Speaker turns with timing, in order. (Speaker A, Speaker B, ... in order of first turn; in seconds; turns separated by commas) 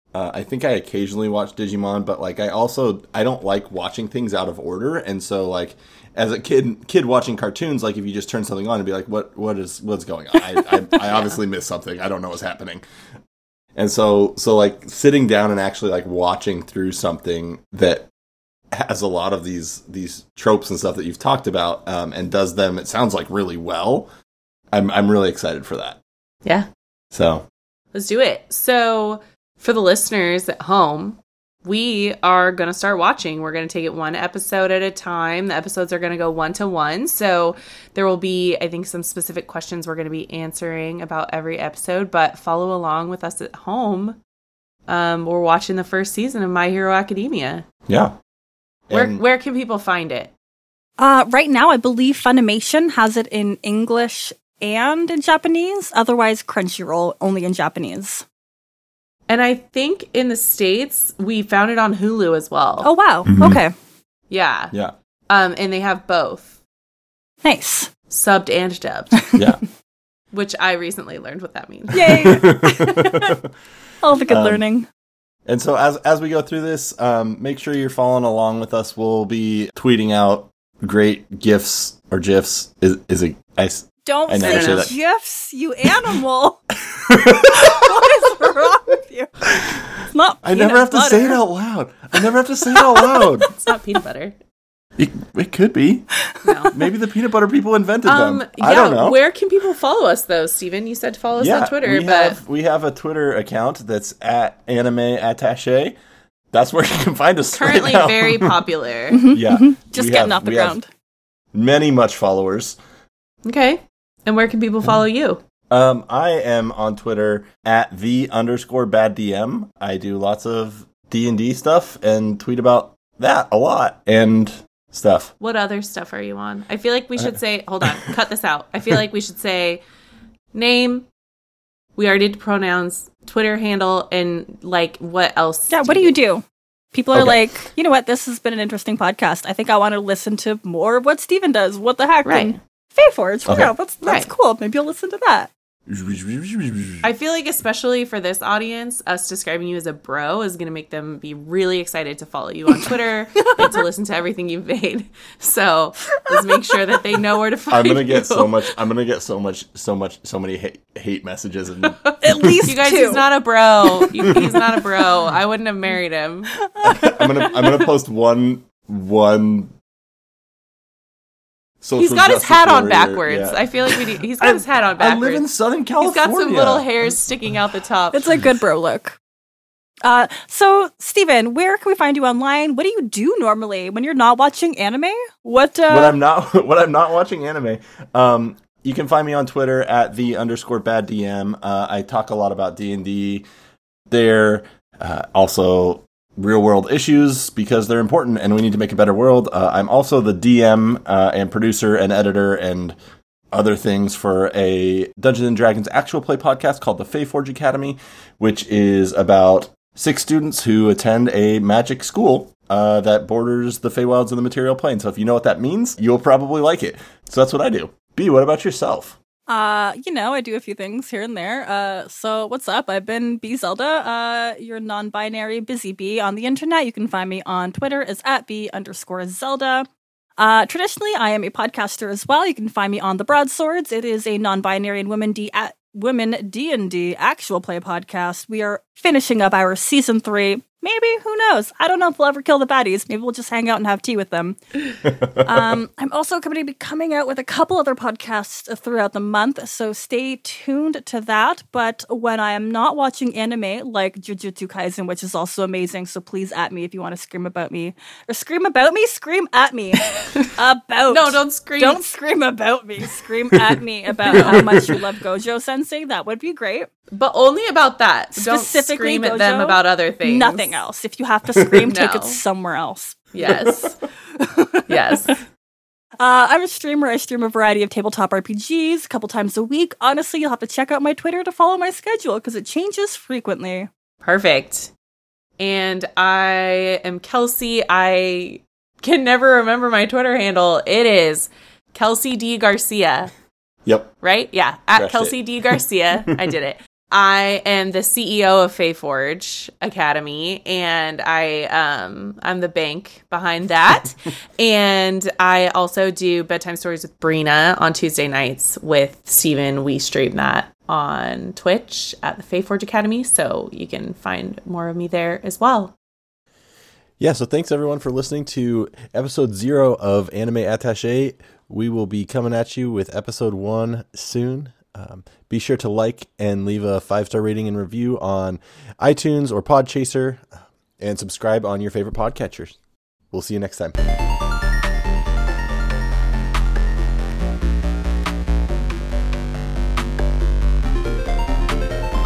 Speaker A: 0.1-12.8, Speaker B: 11.0-11.4, Speaker A: 13.8-18.1, Speaker A: 18.7-24.1, Speaker A: 24.7-26.0, Speaker A: 27.1-27.5, Speaker B: 27.9-44.2, Speaker B: 44.9-47.6, Speaker A: 47.9-48.2, Speaker A: 48.9-49.2, Speaker B: 48.9-50.3, Speaker C: 51.0-58.3, Speaker B: 59.3-62.9, Speaker C: 62.8-63.7, Speaker A: 63.3-63.6, Speaker B: 64.3-64.7, Speaker B: 65.3-66.6, Speaker C: 67.4-67.9, Speaker B: 68.1-69.3, Speaker A: 69.3-69.6, Speaker B: 70.3-72.4, Speaker C: 71.9-73.3, Speaker A: 72.1-73.5, Speaker C: 74.0-74.9, Speaker A: 74.3-74.6, Speaker A: 75.5-84.9, Speaker C: 84.0-86.6, Speaker B: 84.4-84.9, Speaker A: 86.9-87.9, Speaker C: 87.4-89.3, Speaker C: 90.0-91.4, Speaker A: 90.4-93.5, Speaker C: 92.8-93.1, Speaker B: 93.5-94.4, Speaker A: 95.0-96.2, Speaker B: 96.4-96.8, Speaker A: 96.7-99.2, Speaker B: 98.0-102.4, Speaker A: 101.4-106.0, Speaker A: 106.5-108.6, Speaker B: 107.5-109.2, Speaker C: 109.1-110.9, Speaker A: 109.3-110.8, Speaker A: 111.5-112.8, Speaker B: 113.5-115.4, Speaker A: 115.7-125.3, Speaker B: 125.4-129.8, Speaker B: 130.5-131.1, Speaker B: 132.0-136.2, Speaker C: 135.7-145.5, Speaker B: 142.2-142.6, Speaker A: 143.5-143.7, Speaker B: 144.0-144.3, Speaker A: 145.9-147.1, Speaker B: 147.0-158.6, Speaker C: 156.2-156.7, Speaker A: 157.7-162.7, Speaker C: 162.2-163.2, Speaker B: 162.7-166.6, Speaker C: 166.7-167.9, Speaker A: 166.8-169.7, Speaker A: 171.8-177.2, Speaker B: 172.0-175.5, Speaker B: 176.0-178.3, Speaker C: 178.1-179.2, Speaker C: 180.0-186.2, Speaker A: 185.9-193.5, Speaker A: 194.1-203.0, Speaker A: 203.5-219.2, Speaker C: 219.5-229.9, Speaker C: 230.4-244.6, Speaker A: 245.2-245.6, Speaker C: 245.4-266.9, Speaker B: 260.2-260.5, Speaker B: 261.1-262.1, Speaker B: 264.3-264.6, Speaker A: 264.3-264.9, Speaker B: 267.1-270.8, Speaker C: 268.4-273.2, Speaker B: 271.9-272.4, Speaker B: 273.3-274.0, Speaker C: 274.4-275.3, Speaker B: 274.9-275.4, Speaker C: 276.2-283.9, Speaker B: 284.2-284.9, Speaker B: 285.6-293.3, Speaker A: 293.9-294.1, Speaker B: 294.2-315.9, Speaker A: 294.9-295.8, Speaker A: 317.2-332.8, Speaker A: 333.3-334.0